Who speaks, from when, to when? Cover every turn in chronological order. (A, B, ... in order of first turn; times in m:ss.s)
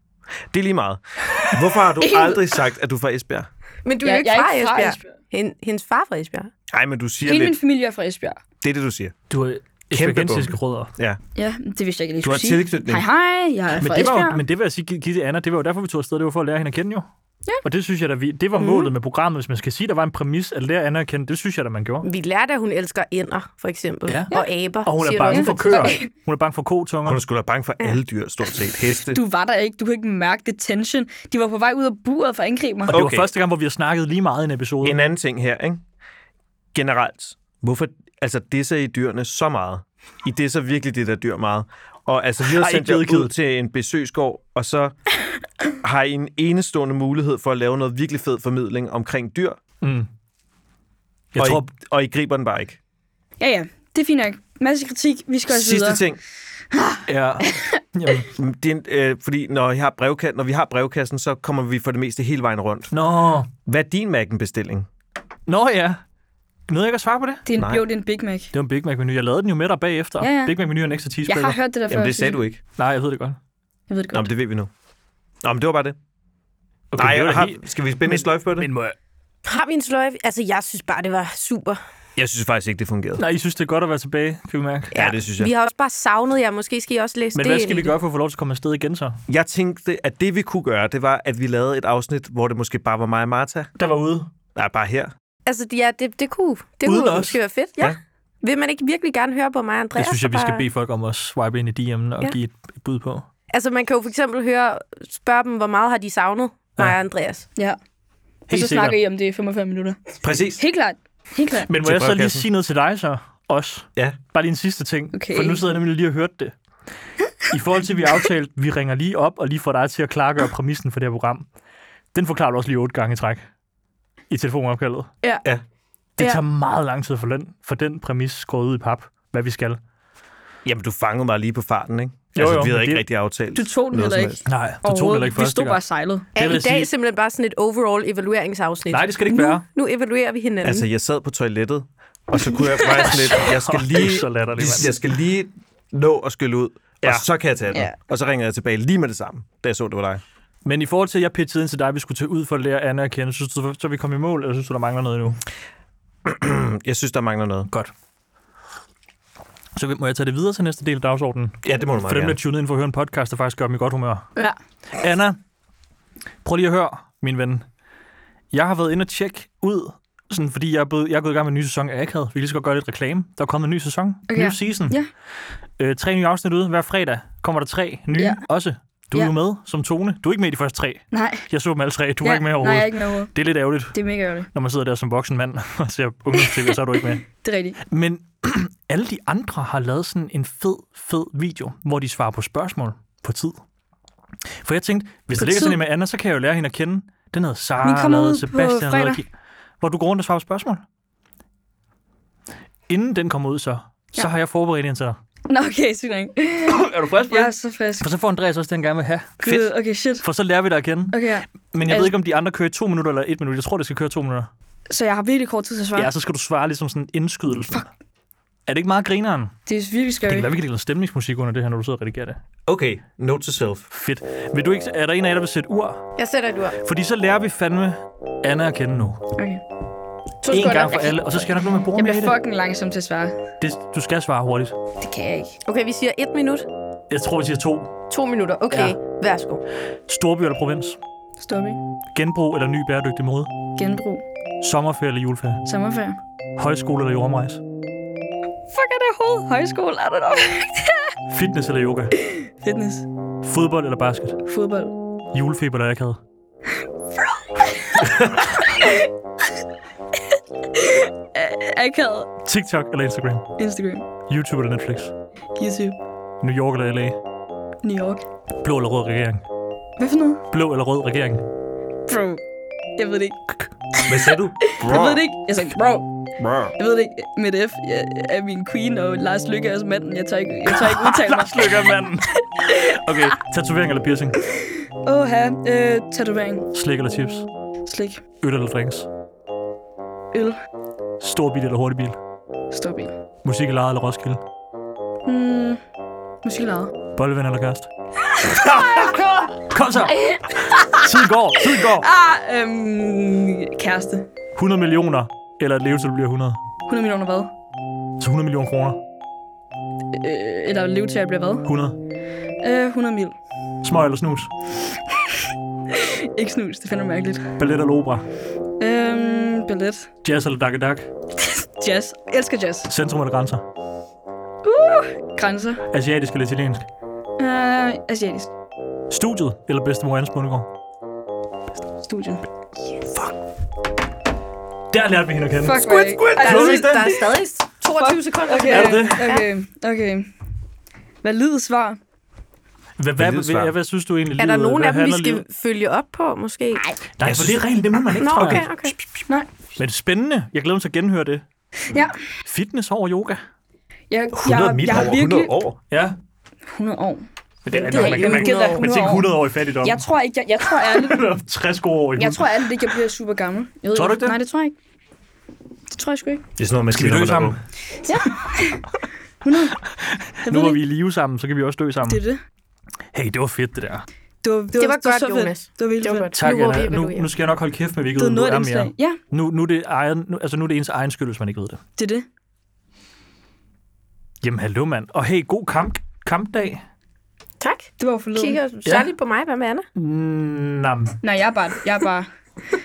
0:00.5-0:03.5 A
0:02.0-0:02.5 B
0:03.8-0:06.5 C
0:04.0-0:05.0 B
0:06.7-0:07.6 A
0:07.2-0:08.4 B
0:08.6-0:09.1 A
0:09.3-0:10.9 D
0:09.9-0:11.2 A
0:11.4-0:14.4 B
0:12.2-0:13.1 A
0:13.8-0:17.1 D
0:17.6-0:22.1 D
0:18.6-0:18.9 C
0:22.0-0:26.0 C
0:24.1-0:27.2 D
0:25.3-0:26.1 B
0:27.0-0:29.2 A
0:29.1-0:32.9 B
0:32.9-0:33.3 A
0:32.9-0:35.0 D
0:34.8-0:35.8 A
0:36.7-0:45.0 A
0:42.5-0:43.3 D
0:45.8-0:49.6 A
0:49.8-0:50.1 D
0:51.3-0:51.7 D
0:51.4-0:52.8 A
0:53.4-0:56.0 B
0:55.5-0:56.2 A
0:56.7-0:57.6 B
0:57.1-0:58.3 D
0:58.3-1:02.9 A
1:02.9-1:03.5 D
1:03.7-1:04.9 A
1:05.5-1:06.0 D
1:06.7-1:07.4 D
1:07.5-1:08.5 B
1:07.6-1:07.8 A
1:08.5-1:11.6 D
1:10.2-1:10.6 B
1:11.3-1:12.4 B
1:11.9-1:12.6 A
1:12.8-1:13.4 D
1:13.9-1:14.3 B
1:14.1-1:14.7 A
1:15.4-1:16.0 A
1:16.9-1:19.0 D
1:17.0-1:18.7 A
1:19.5-1:21.8 C
1:22.2-1:23.2 A
1:23.2-1:25.0 D
1:24.9-1:25.5 A
1:24.9-1:27.9 C
1:27.4-1:29.2 D
1:29.3-1:33.7 A
1:33.8-1:34.3 D
1:34.6-1:35.1 A
1:35.5-1:40.6 C
1:36.8-1:37.4 D
1:40.0-1:43.3 D
1:43.5-1:47.4 C
1:48.5-1:49.0 D
1:48.5-1:50.0 B
1:50.2-1:50.6 A
1:50.6-1:51.7 B
1:51.6-1:56.6 D
1:51.8-1:52.5 A
1:55.1-1:55.6 B
1:57.5-2:01.5 D
2:02.1-2:03.4 D
2:04.3-2:05.1 D
2:06.2-2:09.8 D
2:10.6-2:14.4 A
2:12.4-2:13.0 D
2:13.6-2:16.3 B
2:14.5-2:15.8 D
2:16.4-2:16.9 D
2:16.4-2:20.9 C
2:18.9-2:19.6 D
2:20.6-2:30.2 A
2:22.9-2:24.9 D
2:30.6-2:35.4 D
2:36.2-2:37.7 A
2:39.8-2:44.3 D
2:41.6-2:42.4 A
2:45.0-2:45.4 D
2:46.4-2:47.6 D
2:48.5-2:55.0 D
2:54.3-2:55.1 B
2:55.8-3:04.0 D
2:58.2-2:58.4 B
3:01.1-3:01.5 B
3:02.2-3:03.3 B
3:03.9-3:04.5 B
3:04.5-3:07.3 D
3:06.4-3:06.7 B
3:07.3-3:07.8 B
3:07.9-3:13.6 D
3:14.6-3:19.3 D
3:15.4-3:15.8 B
3:17.8-3:19.2 B
3:19.8-3:20.8 D
3:22.9-3:25.2 D
3:25.5-3:28.1 B
3:26.7-3:29.7 D
3:29.4-3:30.2 B
3:30.2-3:34.5 D
3:31.1-3:32.1 B
3:34.9-3:36.1 B
3:36.0-3:37.9 D
3:38.7-3:39.5 D
3:39.7-3:40.5 B
3:40.2-3:42.4 D
3:42.7-3:43.9 A
3:43.9-3:46.1 D
3:46.2-3:46.8 C
3:46.8-3:49.2 D
3:49.4-3:49.6 B
3:50.4-3:51.2 C
3:50.5-3:52.4 D
3:52.0-3:53.4 B
3:53.6-3:54.8 D
3:55.0-3:55.6 B
3:55.7-3:56.7 C
3:57.1-3:57.9 D
3:58.1-3:59.6 C
3:58.7-3:59.0 D
4:00.1-4:01.0 D
4:01.4-4:01.8 B
4:02.1-4:03.5 D
4:03.8-4:04.2 B
4:04.6-4:05.6 D
4:05.7-4:06.2 B
4:06.6-4:07.6 D
4:08.7-4:11.1 B
4:11.3-4:12.1 D
4:12.3-4:13.1 B
4:13.4-4:14.4 D
4:14.5-4:15.0 B
4:15.3-4:16.2 D
4:17.6-4:18.1 B
4:18.0-4:18.4 D
4:18.6-4:19.1 B
4:20.7-4:22.3 B
4:22.4-4:23.5 D
4:23.6-4:24.1 B
4:24.3-4:25.1 D
4:25.6-4:26.0 B
4:26.4-4:27.2 D
4:27.8-4:28.2 B
4:28.6-4:29.4 D
4:30.0-4:30.4 B
4:30.5-4:31.4 D
4:32.1-4:32.4 B
4:33.0-4:33.4 B
4:34.1-4:35.2 A
4:34.7-4:36.1 B
4:36.4-4:36.8 A
4:36.8-4:41.9 B
4:40.7-4:44.4 D
4:42.6-4:43.2 B
4:44.5-4:46.7 B
4:46.7-4:47.5 D
4:47.9-4:48.2 B
4:48.4-4:49.1 D
4:50.3-4:50.6 B
4:51.2-4:52.2 D
4:52.7-4:53.1 B
4:53.4-4:54.4 D
4:55.2-4:55.8 B
4:56.4-4:56.9 B
4:57.2-4:57.9 D
4:58.4-4:59.4 B
4:58.5-5:02.1 D
5:00.1-5:01.1 B
5:02.0-5:04.3 B
5:04.6-5:06.6 D
5:06.9-5:07.5 B
5:08.2-5:09.0 D
5:10.1-5:11.7 B
5:11.7-5:12.0 D
5:12.6-5:13.4 B
5:13.8-5:14.5 D
5:15.9-5:17.5 B
5:17.6-5:18.3 D
5:18.8-5:20.1 B
5:20.2-5:21.1 D
5:21.4-5:22.9 B
5:22.9-5:23.6 D
5:24.6-5:25.8 B
5:25.9-5:26.8 D
5:27.4-5:28.5 B
5:29.1-5:30.7 D
5:32.0-5:33.0 B
5:34.9-5:37.6 D
5:35.6-5:37.1 B
5:36.3-5:39.5 C
5:38.0-5:40.3 B
5:38.7-5:39.4 D
5:41.2-5:42.0 B
5:43.0-5:45.4 D
5:43.2-5:43.8 A
5:44.4-5:46.9 C
5:47.2-5:49.0 D
5:47.2-5:47.6 A
5:48.2-5:49.0 C
5:49.8-5:51.4 D
5:51.9-5:52.2 B
5:52.4-5:53.4 D
5:54.1-5:55.5 B
5:54.3-5:55.8 A
5:55.9-5:56.2 D
5:56.7-6:01.3 B
5:57.7-6:00.0 D
5:57.7-5:58.9 C
6:00.7-6:02.9 D
6:02.2-6:04.8 B
6:03.9-6:04.4 D
6:05.9-6:06.4 B
6:06.6-6:07.6 A
6:06.9-6:07.6 D
6:08.1-6:08.8 B
6:09.4-6:09.8 B
6:10.0-6:12.2 D
6:10.5-6:10.8 B
6:12.0-6:12.4 B
6:13.1-6:14.0 D
6:14.4-6:16.3 B
6:14.8-6:17.3 C
6:16.4-6:21.8 D
6:18.2-6:19.2 B
6:22.0-6:22.3 B
6:24.4-6:26.8 D
6:27.6-6:29.9 C
6:28.0-6:28.6 B
6:30.0-6:31.2 D
6:31.2-6:32.3 B